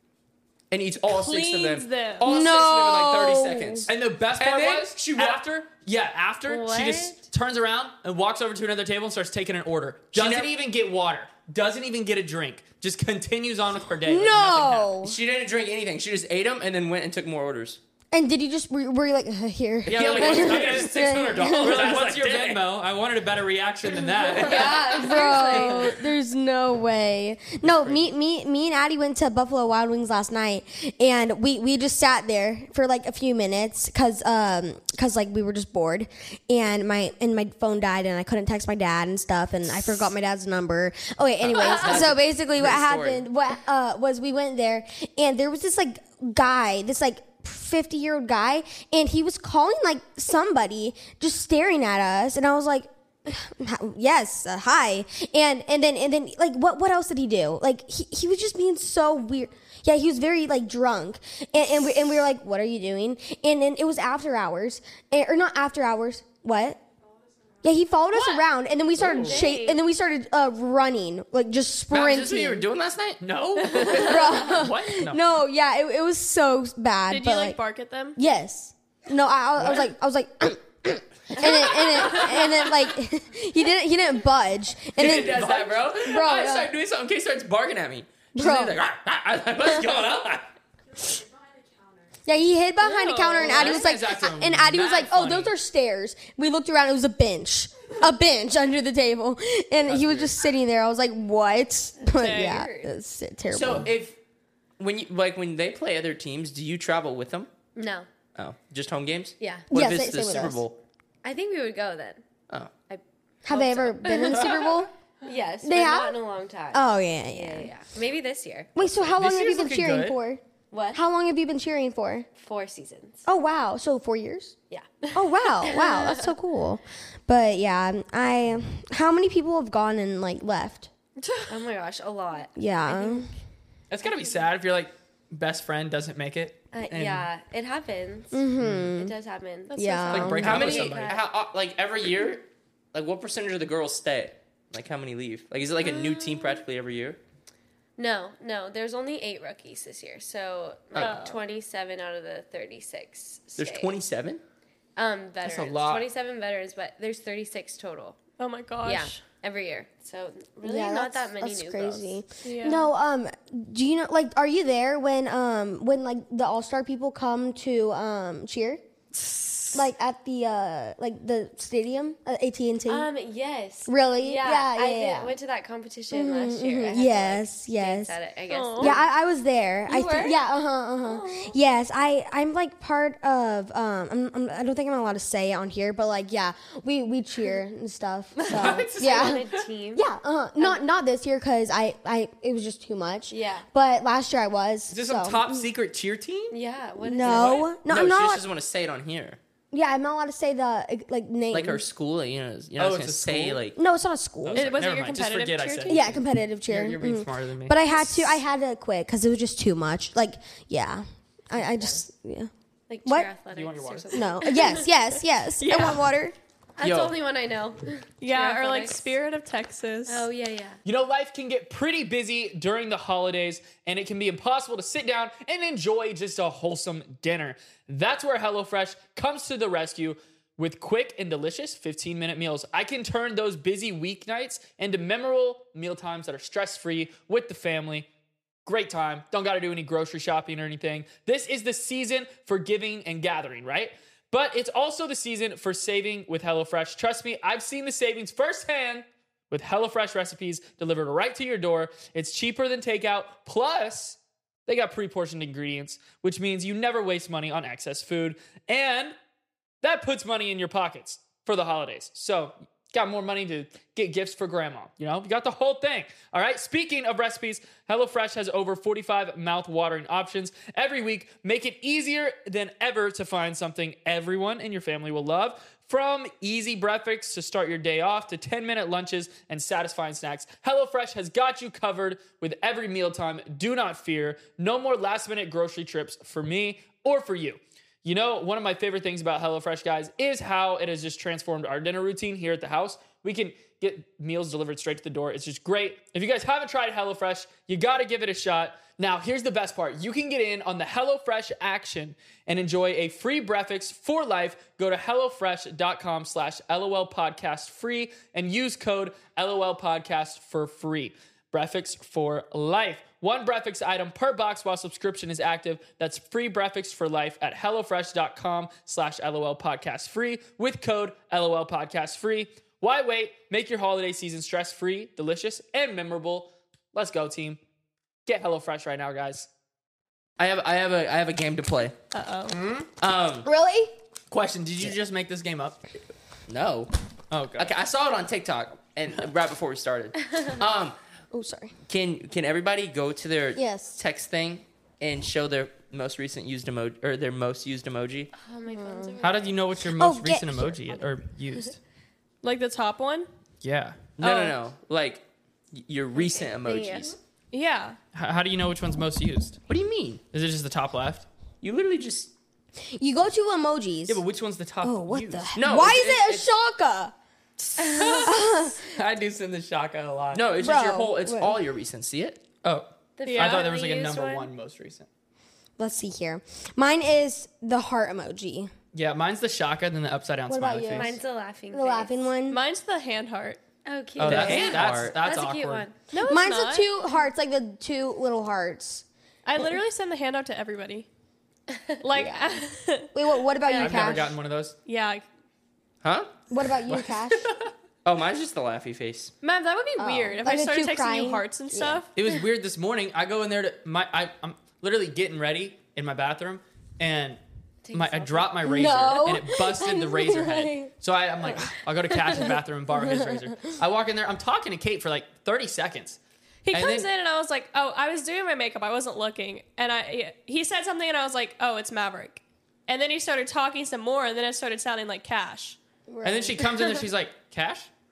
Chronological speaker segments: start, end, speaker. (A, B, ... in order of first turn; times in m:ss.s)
0:00.7-0:05.4 A
0:01.1-0:02.3 B
0:02.2-0:03.9 C
0:03.9-0:14.9 D
0:06.5-0:07.2 E
0:10.1-0:10.5 A
0:14.0-0:15.2 C
0:15.0-0:17.8 A
0:18.1-0:22.0 C
0:19.8-0:25.9 D
0:19.9-0:22.7 A
0:24.3-0:25.9 E
0:24.3-0:24.8 A
0:24.4-1:06.8 C
0:27.7-0:28.0 D
0:41.4-0:43.2 A
1:07.6-1:12.7 C
1:09.0-1:09.4 D
1:09.0-1:09.8 E
1:11.9-1:13.9 A
1:13.2-1:15.2 D
1:13.8-1:17.6 C
1:17.1-1:18.2 B
1:18.2-1:26.8 C
1:25.0-1:30.5 A
1:25.0-1:25.8 D
1:28.4-1:28.8 C
1:32.3-1:43.9 C
1:32.8-1:33.8 B
1:33.4-1:35.5 D
1:39.9-1:40.3 D
1:42.0-1:42.9 E
1:42.1-1:42.7 B
1:43.5-1:44.2 A
1:44.8-1:47.5 A
1:47.8-1:48.1 E
1:48.4-1:50.8 A
1:49.4-1:49.7 E
1:49.7-1:50.6 C
1:51.2-1:52.2 E
1:52.9-1:54.7 E
1:53.4-1:54.9 C
1:55.2-1:58.8 E
1:55.6-1:56.2 C
1:56.7-1:57.7 C
1:58.8-2:00.4 C
1:59.0-2:00.2 D
2:00.7-2:01.0 E
2:00.9-2:02.3 C
2:02.4-2:03.2 E
2:03.2-2:04.6 C
2:04.7-2:06.3 E
2:05.1-2:10.9 C
2:11.5-2:13.3 E
2:12.6-2:13.3 C
2:13.9-2:17.3 D
2:16.7-2:21.2 E
2:18.3-2:19.1 C
2:18.6-2:18.9 D
2:19.7-2:20.3 B
2:19.8-2:20.4 C
2:20.1-2:21.2 D
2:20.4-2:27.2 A
2:25.9-2:26.6 E
2:28.0-2:34.0 E
2:31.0-2:31.4 B
2:33.6-2:34.4 A
2:35.0-2:38.2 E
2:35.4-2:36.1 D
2:38.4-2:39.2 B
2:38.8-2:42.2 E
2:40.6-2:48.8 C
2:42.4-2:42.9 B
2:49.7-2:53.1 C
2:52.9-2:59.1 E
2:53.9-2:55.4 C
2:56.1-2:58.1 C
2:58.5-2:59.0 B
2:58.8-3:15.7 C
2:59.9-3:00.4 E
3:01.2-3:01.5 E
3:08.5-3:09.6 D
3:08.5-3:10.1 E
3:13.3-3:13.7 E
3:14.9-3:16.6 D
3:16.5-3:17.7 E
3:17.0-3:18.4 C
3:17.3-3:17.6 D
3:17.9-3:19.4 A
3:19.7-3:21.8 C
3:21.5-3:23.8 A
3:22.8-3:23.6 D
3:23.8-3:24.7 C
3:24.4-3:28.4 D
3:24.6-3:26.1 B
3:25.9-3:32.5 C
3:31.6-3:32.0 D
3:32.9-3:34.9 E
3:33.5-3:34.4 D
3:34.1-3:36.4 C
3:35.6-3:36.0 B
3:36.8-3:39.1 E
3:36.8-3:37.2 A
3:38.2-3:40.3 B
3:40.1-3:40.8 E
3:40.8-3:58.1 D
3:58.6-4:19.2 D
4:19.8-5:27.6 D
5:28.3-5:29.5 D
5:30.4-5:32.0 A
5:32.1-5:32.6 B
5:32.5-5:32.9 D
5:33.0-5:33.5 A
5:33.4-5:33.9 C
5:34.3-5:35.8 D
5:36.5-5:36.9 A
5:37.3-5:37.7 D
5:37.6-5:41.0 A
5:41.3-5:41.7 C
5:41.9-5:48.3 A
5:43.6-5:44.0 C
5:48.4-5:49.6 E
5:48.7-5:49.2 C
5:49.2-5:51.8 D
5:49.9-5:51.0 C
5:52.4-5:53.3 B
5:53.6-5:54.1 D
5:54.2-5:57.1 A
5:54.2-5:54.5 B
5:56.2-5:57.2 E
5:57.5-5:58.0 B
5:58.1-5:59.6 D
5:59.7-6:00.2 A
6:00.3-6:01.3 D
6:01.6-6:02.3 A
6:02.8-6:04.2 C
6:04.1-6:05.5 D
6:04.8-6:07.1 C
6:05.6-6:06.5 A
6:07.7-6:10.5 D
6:08.0-6:08.8 C
6:10.3-6:12.4 A
6:10.6-6:11.6 C
6:12.6-6:15.1 D
6:13.2-6:14.5 E
6:13.2-6:13.7 B
6:15.8-6:18.7 C
6:18.9-6:21.2 D
6:20.5-6:21.2 C
6:20.9-6:22.3 E
6:21.7-6:22.6 C
6:22.5-6:23.6 B
6:23.9-6:26.0 E
6:24.2-6:25.9 D
6:24.2-6:25.2 A
6:26.1-6:26.9 B
6:26.2-6:29.0 C
6:29.4-6:31.1 B
6:31.7-6:32.0 E
6:32.0-6:33.1 B
6:32.1-6:32.5 C
6:33.1-6:34.3 C
6:33.6-6:34.2 E
6:33.7-6:34.8 D
6:34.9-6:35.2 B
6:36.0-6:36.3 A
6:36.5-6:37.5 C
6:38.0-6:39.3 A
6:39.4-6:42.1 B
6:40.0-6:42.0 C
6:42.2-6:47.4 D
6:47.8-6:49.0 E
6:47.9-6:56.2 D
6:48.6-6:50.9 C
6:52.9-6:53.5 C
6:56.6-7:05.8 B
6:56.7-6:57.1 D
7:06.1-7:07.0 C
7:06.2-7:07.9 D